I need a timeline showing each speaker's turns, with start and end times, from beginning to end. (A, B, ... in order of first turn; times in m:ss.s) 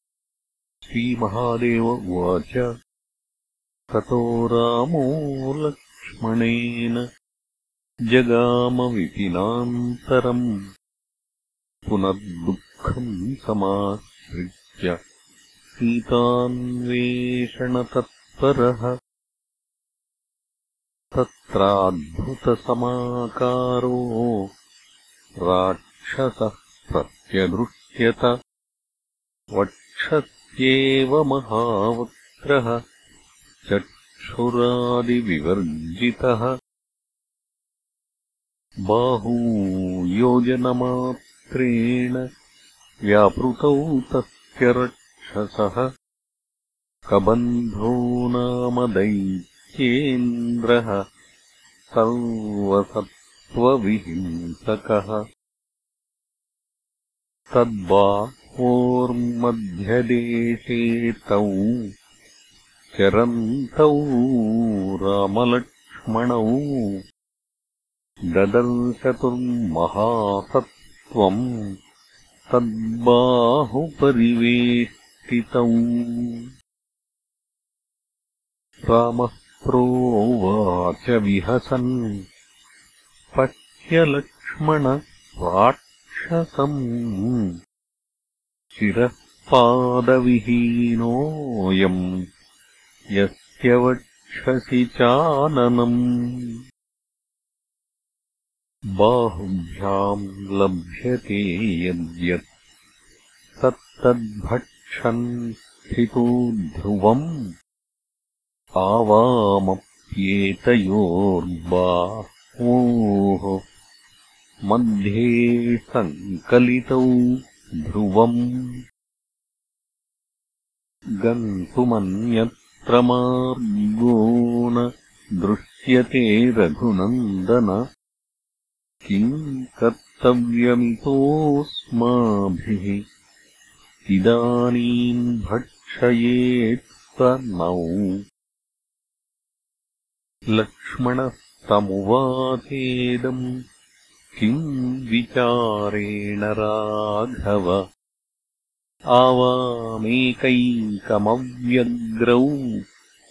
0:00.8-0:02.7 A
0:03.9-0:07.0 A
0:08.1-0:10.5 A
0:11.9-0:15.0 A
0:15.8-0:18.9 A
0:21.1-0:24.4 A
0:25.4-0:28.3 A
0:29.6-0:32.8 A
0:33.7-0:36.5 A
0:38.9-0:42.2 A
0:43.1-0:45.9 A
0:47.1-0:51.0 A
0:51.9-0:55.2 A
0:57.5-1:01.8 A
1:03.0-1:06.9 A
1:08.3-1:11.4 A
1:12.5-1:16.4 A
1:18.9-1:21.9 A
1:23.4-1:27.5 A
1:28.7-1:32.0 A
1:33.2-1:36.6 A
1:39.0-1:42.5 A
1:43.6-1:45.3 A
1:45.9-1:47.3 A
1:48.8-1:53.6 A
1:54.7-1:57.1 A
1:57.9-1:58.7 A
2:01.2-2:04.9 A
2:05.4-2:07.8 A
2:09.1-2:13.0 A
2:14.1-2:18.1 A
2:20.6-2:23.4 A
2:24.4-2:27.8 A
2:29.2-2:32.5 A